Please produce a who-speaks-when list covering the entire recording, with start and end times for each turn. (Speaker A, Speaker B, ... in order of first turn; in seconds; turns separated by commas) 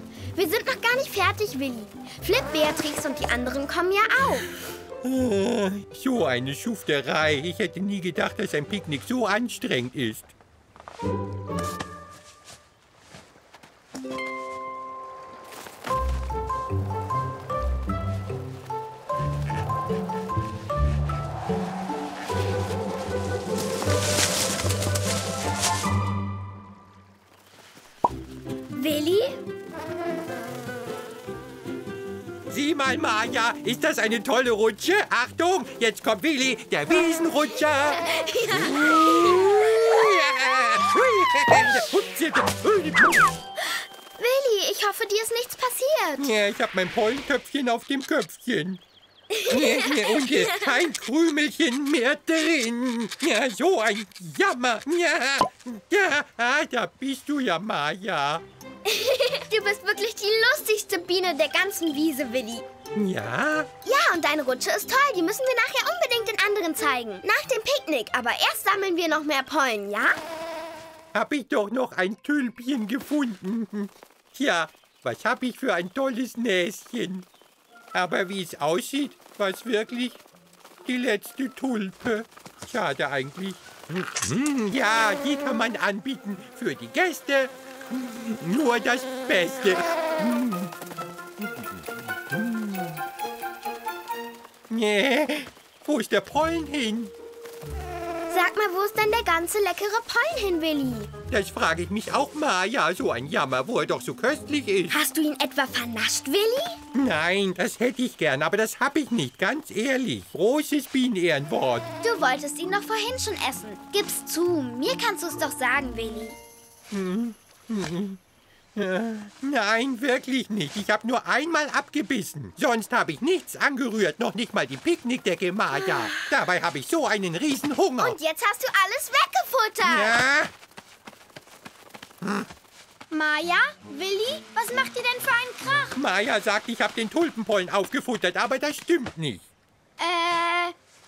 Speaker A: 0.3-4.5, Speaker B: 5.0-10.3, Speaker A: 28.7-29.4, Speaker B: 32.5-43.3, Speaker A: 38.1-39.3, Speaker A: 44.2-46.3, Speaker B: 46.2-48.8, Speaker A: 49.3-50.7, Speaker B: 49.5-58.4, Speaker A: 58.8-62.6, Speaker B: 62.9-63.7, Speaker A: 63.8-70.2, Speaker B: 71.1-77.3, Speaker B: 77.9-80.2, Speaker B: 80.8-90.7, Speaker B: 92.3-93.0, Speaker B: 94.7-97.1, Speaker A: 98.3-101.1, Speaker B: 101.3-105.0, Speaker A: 104.9-106.8, Speaker B: 106.9-111.9, Speaker A: 112.0-116.3, Speaker B: 116.9-118.2, Speaker B: 118.7-128.2, Speaker A: 125.7-126.3, Speaker A: 128.0-130.2, Speaker B: 129.8-130.5, Speaker B: 132.2-132.5, Speaker A: 133.1-136.0, Speaker B: 135.9-139.5, Speaker A: 140.0-140.7